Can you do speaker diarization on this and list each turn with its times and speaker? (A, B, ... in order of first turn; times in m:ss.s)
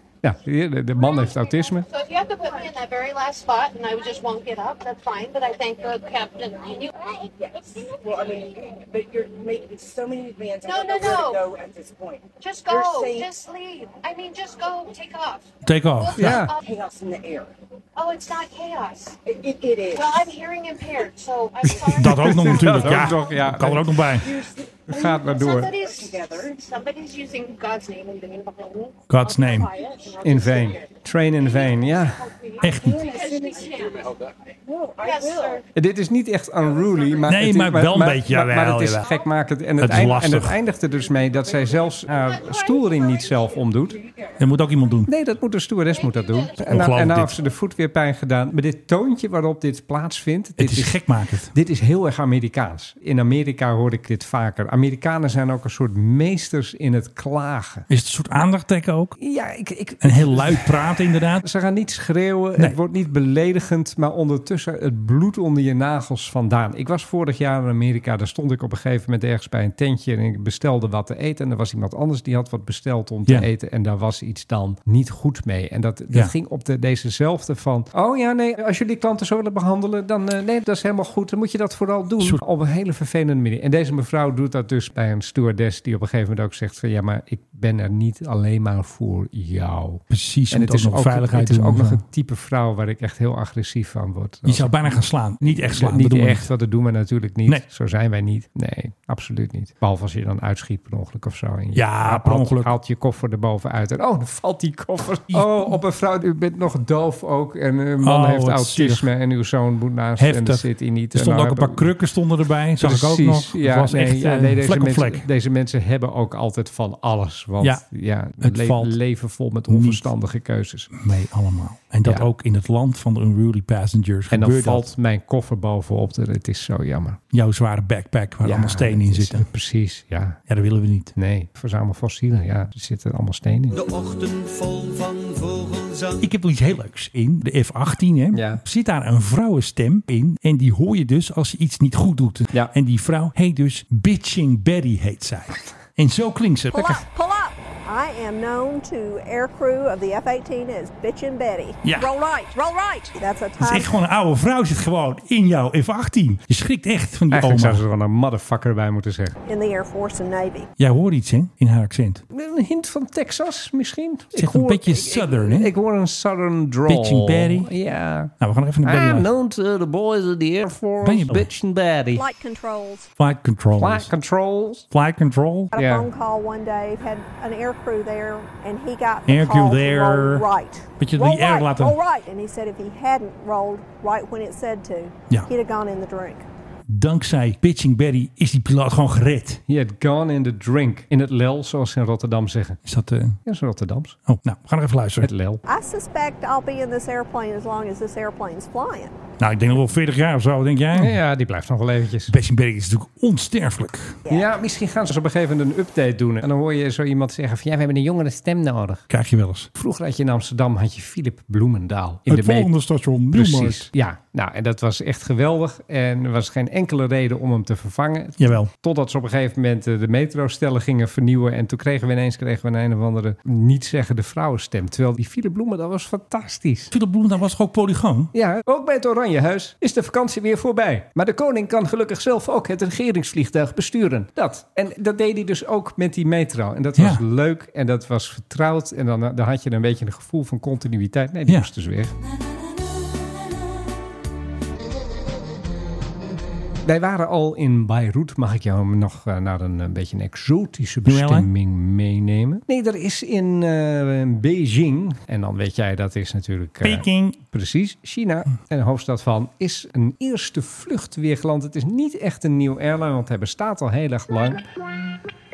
0:00.2-0:01.9 A
0:01.8-0:08.4 B
0:08.0-0:13.2 C
0:10.6-0:11.5 B
0:12.4-0:16.6 B
0:15.6-0:16.4 D
0:16.2-0:16.5 A
0:16.6-0:17.5 C
0:18.0-0:19.2 B
0:19.2-0:20.3 C
0:19.9-0:22.8 B
0:21.6-0:24.1 A
0:21.9-0:24.4 D
0:24.9-0:25.7 A
0:24.9-0:30.1 B
0:29.1-0:29.7 D
0:30.1-0:30.9 C
0:30.2-0:32.2 A
0:32.3-0:34.1 B
0:32.6-0:33.0 D
0:32.8-0:33.6 C
0:34.6-0:35.4 C
0:35.0-0:35.6 B
0:35.7-0:44.0 A
0:37.3-0:39.1 D
0:39.8-0:40.6 D
0:44.4-0:45.1 D
0:45.1-0:51.0 A
0:46.6-0:47.3 D
0:50.6-0:51.5 D
0:51.5-0:57.8 A
0:57.9-0:59.2 D
0:59.2-1:00.8 A
1:00.0-1:01.4 D
1:01.4-1:34.8 A
1:30.1-1:32.0 D
1:34.4-1:36.5 D
1:35.4-1:51.9 A
1:41.7-1:42.7 D
1:45.3-1:45.8 D
1:48.0-1:49.1 D
1:50.2-1:55.2 D
1:52.8-2:00.9 A
1:58.4-1:59.0 D
1:59.7-2:00.0 D
2:00.9-2:04.9 D
2:04.3-2:07.2 A
2:07.3-2:09.4 D
2:08.4-2:10.4 A
2:10.5-2:11.1 D
2:11.2-2:13.8 A
2:13.7-2:16.3 E
2:16.2-2:27.0 D
2:18.3-2:18.6 A
2:26.7-2:34.0 F
2:31.8-2:32.1 D
2:33.6-2:37.8 D
2:37.3-2:39.4 A
2:39.4-2:40.7 F
2:40.8-2:42.2 D
2:42.3-2:52.2 A
2:44.3-2:45.7 D
2:46.9-2:47.7 D
2:48.4-2:49.3 D
2:51.0-2:51.5 D
2:52.1-2:53.1 F
2:53.2-2:54.1 D
2:53.8-2:54.8 A
2:54.9-2:55.7 D
2:55.7-3:06.4 F
2:55.8-2:56.1 A
2:59.3-3:00.4 D
3:01.0-3:02.0 D
3:06.9-3:09.6 D
3:09.7-3:12.8 A
3:12.8-3:13.4 D
3:13.4-3:14.2 A
3:14.3-3:15.3 D
3:15.2-3:15.6 A
3:15.7-3:19.1 F
3:19.4-3:21.2 D
3:20.9-3:22.3 A
3:22.3-3:24.2 D
3:24.3-3:29.0 A
3:29.1-3:29.7 D
3:29.8-3:32.7 A
3:32.3-3:33.9 D
3:33.3-3:46.9 A
3:38.4-3:38.7 D
3:46.9-3:48.3 D
3:48.3-4:02.1 A
3:57.0-3:57.2 D
4:06.8-4:24.6 A
4:11.0-4:11.5 D
4:16.8-4:17.4 D